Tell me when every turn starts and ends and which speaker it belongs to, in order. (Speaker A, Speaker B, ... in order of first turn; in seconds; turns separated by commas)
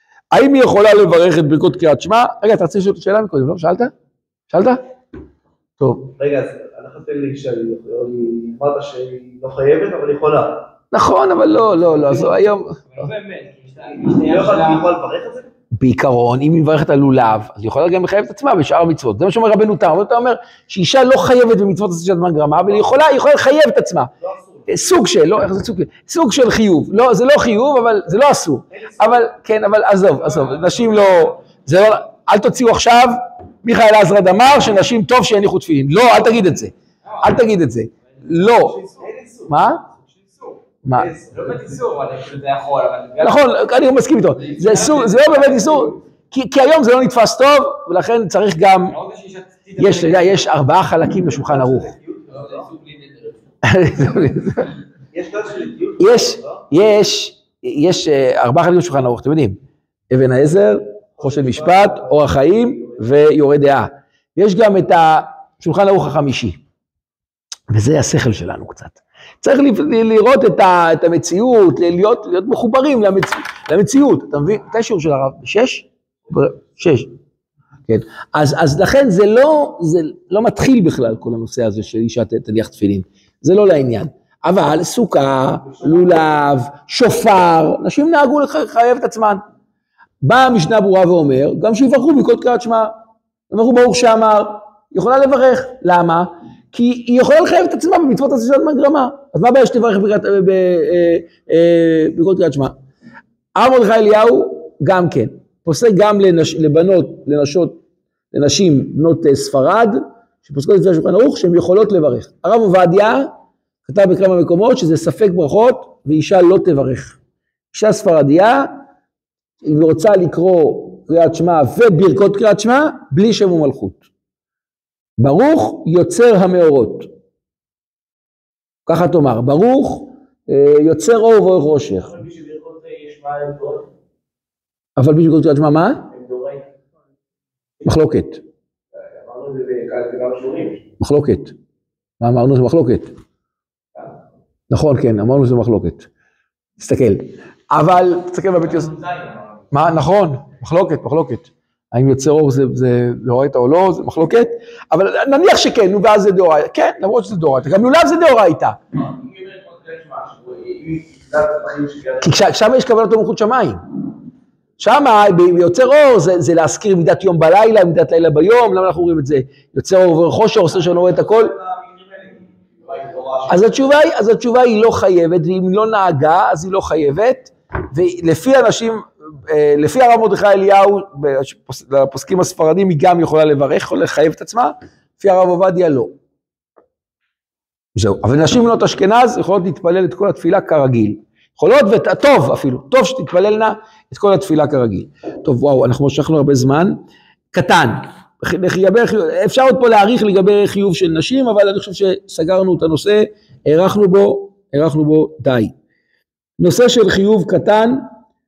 Speaker A: 0.3-3.9, Speaker A: 4.5-4.8, Speaker A: 5.8-6.2, Speaker B: 6.2-10.7, Speaker A: 10.9-13.1, Speaker C: 11.8-14.9, Speaker B: 14.2-15.5, Speaker A: 15.8-24.1, Speaker B: 24.2-24.8, Speaker A: 24.7-38.8, Speaker B: 28.7-29.3, Speaker B: 30.2-31.2, Speaker C: 38.3-39.1, Speaker B: 39.0-39.5, Speaker A: 39.5-39.9, Speaker A: 40.8-41.1, Speaker B: 40.9-41.5, Speaker C: 41.3-43.5, Speaker A: 43.2-49.0, Speaker C: 44.5-45.9, Speaker C: 48.9-50.4, Speaker A: 49.8-51.9, Speaker B: 51.3-52.7, Speaker C: 52.5-53.3, Speaker A: 53.6-54.7, Speaker B: 55.1-56.7, Speaker A: 56.0-59.6, Speaker A: 60.1-66.6, Speaker B: 61.2-62.1, Speaker A: 67.7-77.1, Speaker A: 77.9-89.4, Speaker A: 90.2-92.9, Speaker A: 93.5-102.8, Speaker A: 103.5-107.8, Speaker A: 108.3-113.3, Speaker A: 113.8-117.2, Speaker A: 117.7-118.8, Speaker A: 119.6-124.0, Speaker A: 125.2-127.1, Speaker A: 128.9-132.2, Speaker B: 132.1-133.9, Speaker A: 135.0-136.1, Speaker B: 136.1-136.7, Speaker A: 137.8-138.4, Speaker B: 139.2-140.8, Speaker A: 141.0-141.6, Speaker A: 142.2-143.1, Speaker A: 144.7-146.1, Speaker A: 146.8-148.9, Speaker B: 149.0-149.2, Speaker A: 149.7-158.8, Speaker B: 159.2-162.3, Speaker A: 162.2-163.8, Speaker A: 164.8-171.6, Speaker B: 171.1-173.5, Speaker A: 173.5-186.2, Speaker A: 188.0-197.0, Speaker A: 197.5-205.7, Speaker A: 206.6-208.1